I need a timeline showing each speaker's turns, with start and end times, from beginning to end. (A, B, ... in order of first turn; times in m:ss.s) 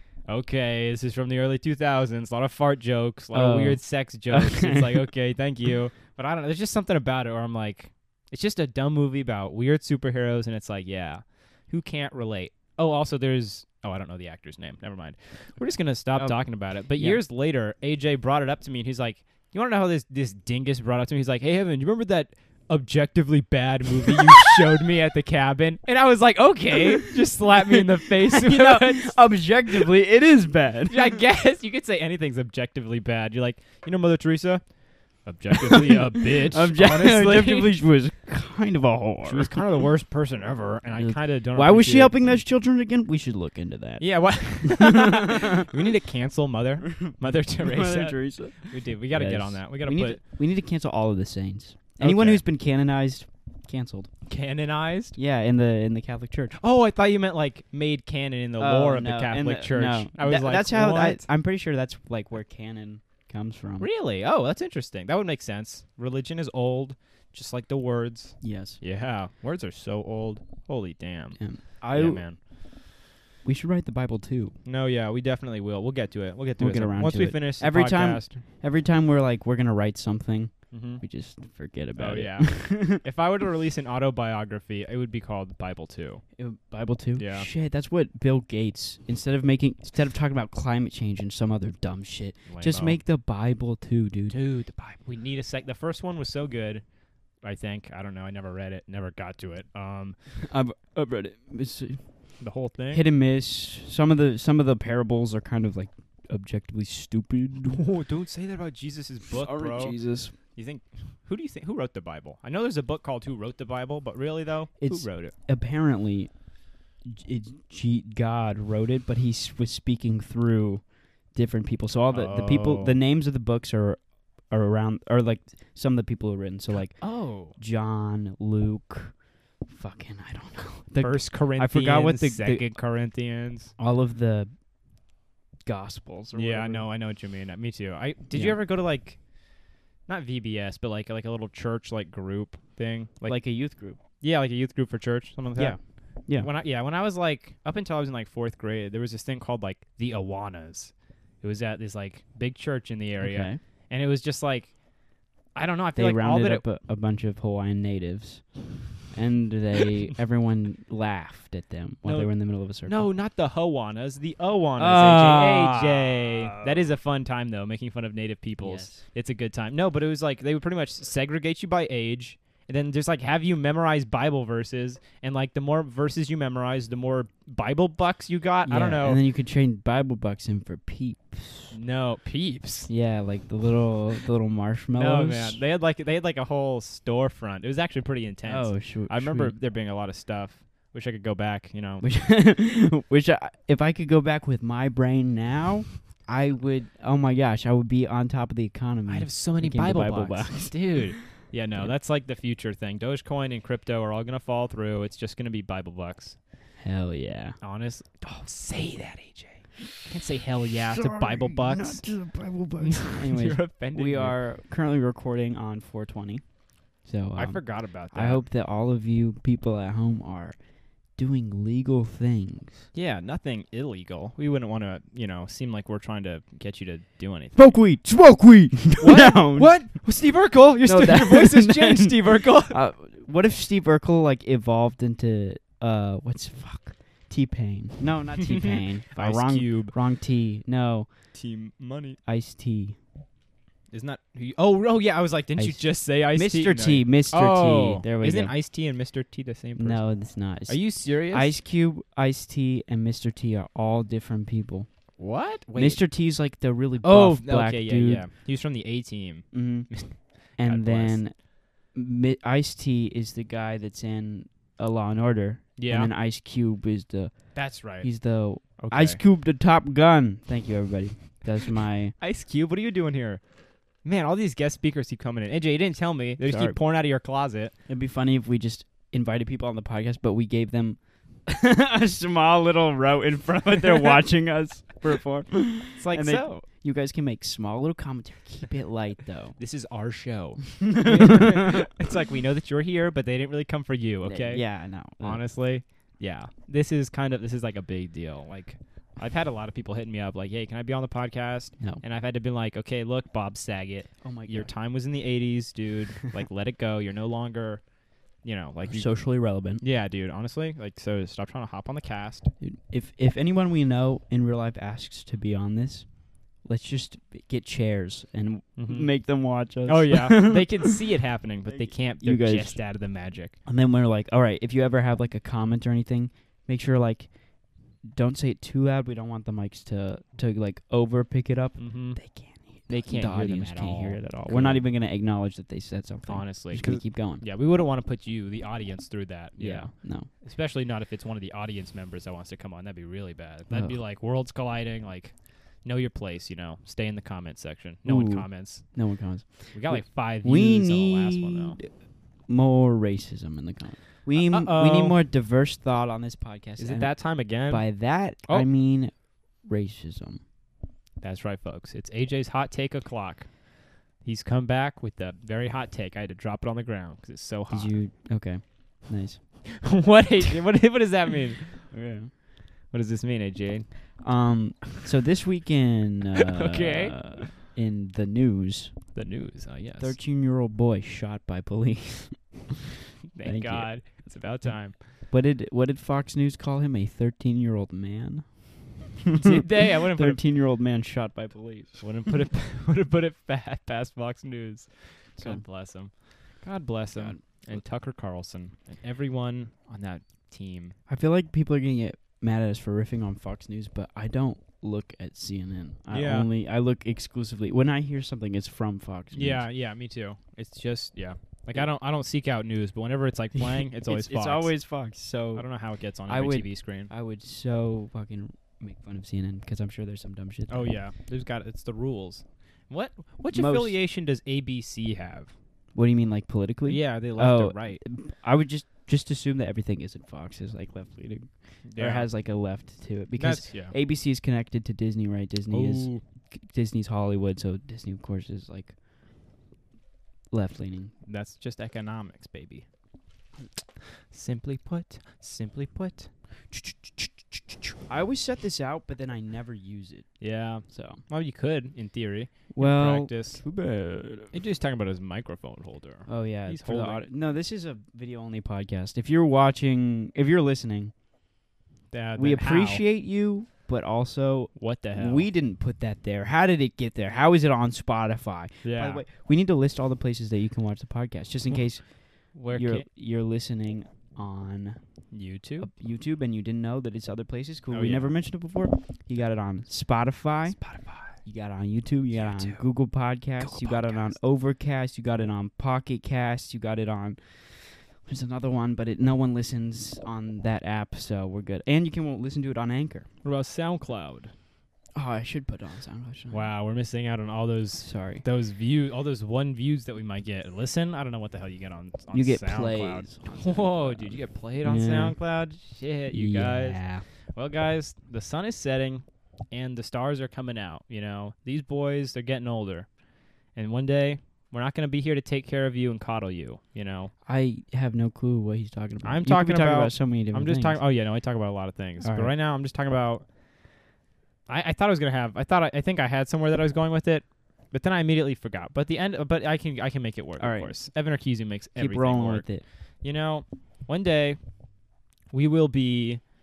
0:00.3-0:29.2 A
0:03.3-0:05.1 B
0:16.1-0:17.2 B
0:27.4-0:31.2 B
0:30.9-0:34.7 A
0:35.2-0:37.7 A
0:35.5-0:39.6 B
0:39.2-0:42.2 A
0:41.0-0:45.7 B
0:44.0-0:50.2 A
0:46.9-0:54.1 B
0:52.0-0:52.4 A
0:54.3-0:55.2 A
0:55.2-0:56.6 B
0:56.6-1:01.3 A
0:58.6-1:03.9 B
1:03.8-1:12.4 A
1:08.4-1:08.8 B
1:11.4-1:12.5 B
1:13.4-1:14.6 B
1:14.6-1:18.4 A
1:16.6-1:23.0 B
1:20.7-1:21.0 A
1:22.0-1:26.2 A
1:26.3-1:34.4 B
1:27.2-1:27.5 A
1:32.5-1:33.0 A
1:34.3-1:36.8 A
1:37.4-1:40.2 A
1:40.4-1:42.0 B
1:42.4-1:43.0 A
1:42.9-1:47.8 B
1:47.7-1:55.3 A
1:49.3-1:50.3 B
1:54.8-1:56.4 B
1:57.0-2:12.7 B
2:02.1-2:02.9 A
2:06.7-2:07.6 A
2:11.0-2:13.7 A
2:13.8-2:14.5 B
2:15.6-2:16.9 B
2:16.3-2:19.2 A
2:18.3-2:18.6 B
2:20.0-2:23.4 A
2:23.3-2:24.0 B
2:24.2-2:34.8 A
2:25.5-2:26.5 B
2:33.2-2:33.6 B
2:35.5-2:36.6 A
2:35.9-2:43.1 B
2:42.0-2:59.2 A
2:44.8-2:46.9 B
2:48.6-2:49.0 B
2:58.6-3:01.7 B
3:01.7-3:02.9 A
3:02.9-3:05.6 B
3:04.9-3:12.0 A
3:08.4-3:09.6 B
3:12.0-3:21.2 B
3:19.1-3:26.4 A
3:26.8-3:27.6 B
3:27.6-3:32.0 A
3:30.9-3:36.4 B
3:32.8-3:34.4 A
3:37.0-3:40.6 B
3:37.4-3:38.4 A
3:41.1-3:42.9 B
3:42.9-3:47.6 A
3:47.5-3:49.9 B
3:49.0-3:52.8 A
3:50.8-4:01.1 B
3:58.4-3:59.9 A
4:01.3-4:02.2 A
4:02.2-4:03.0 B
4:03.9-4:10.2 A
4:05.6-4:08.5 B
4:09.8-4:14.9 B
4:10.7-4:11.6 A
4:15.2-4:16.0 A
4:15.7-4:18.3 B
4:17.0-4:21.2 A
4:19.5-4:32.1 B
4:25.8-4:26.1 A
4:27.5-4:29.2 A
4:32.2-4:33.4 A
4:34.0-4:37.7 A
4:36.4-4:36.8 B
4:37.9-4:49.6 B
4:46.0-4:46.6 A
4:49.6-5:12.5 A
4:50.8-4:51.9 B
4:54.2-4:55.4 B
5:04.2-5:04.7 B
5:08.8-5:09.8 B
5:12.6-5:21.0 B
5:18.8-5:19.3 A
5:19.8-5:23.5 A
5:21.7-5:23.0 B
5:23.6-5:37.4 B
5:31.8-5:32.3 A
5:32.9-5:34.9 A
5:36.3-5:49.0 A
5:39.6-5:40.3 B
5:43.7-5:44.0 B
5:48.0-5:51.9 B
5:49.7-5:51.8 A
5:52.4-6:00.4 B
5:54.3-5:55.2 A
5:56.8-5:58.7 A
6:01.2-6:03.6 A
6:04.2-6:07.9 A
6:07.7-6:10.0 B
6:09.7-6:11.9 A
6:11.9-6:12.3 B
6:12.8-6:13.9 A
6:14.2-6:19.1 B
6:16.4-6:17.5 A
6:19.1-6:20.2 A
6:20.0-6:22.8 B
6:23.3-6:25.0 A
6:23.4-6:24.1 B
6:25.3-6:32.1 B
6:29.4-6:30.4 A
6:32.0-6:41.0 A
6:35.4-6:35.6 B
6:37.2-6:37.8 B
6:41.1-6:49.6 B
6:46.1-6:46.5 A
6:49.3-6:54.7 A
6:53.6-6:55.7 B
6:55.6-6:57.1 A
6:56.2-7:01.0 B
7:00.7-7:05.5 A
7:03.5-7:04.0 B
7:05.9-7:19.0 B
7:06.8-7:08.0 A
7:11.8-7:12.3 A
7:13.4-7:13.9 A
7:15.7-7:16.2 A
7:20.5-7:21.1 B
7:21.2-7:22.9 A
7:24.3-7:27.2 A
7:28.1-7:31.2 B
7:30.4-7:33.6 A
7:32.7-7:34.5 B
7:34.5-7:37.3 A
7:36.3-7:41.1 B
7:42.1-7:43.0 A
7:42.4-7:55.2 B
7:44.7-7:45.5 A
7:48.8-7:49.2 A
7:52.5-7:53.0 A
7:55.3-7:55.9 A
7:55.8-8:13.3 B
7:57.9-7:58.3 A
8:00.8-8:01.4 A
8:02.3-8:02.8 A
8:03.6-8:04.4 A
8:13.4-8:14.5 A
8:15.1-8:16.7 B
8:16.5-8:37.3 A
8:18.0-8:18.4 B
8:22.3-8:25.4 B
8:26.3-8:27.2 B
8:37.4-8:41.0 B
8:39.2-8:43.5 A
8:42.2-8:42.5 B
8:44.7-8:54.8 A
8:50.6-8:51.0 B
8:52.0-8:52.8 B
8:55.5-8:56.4 A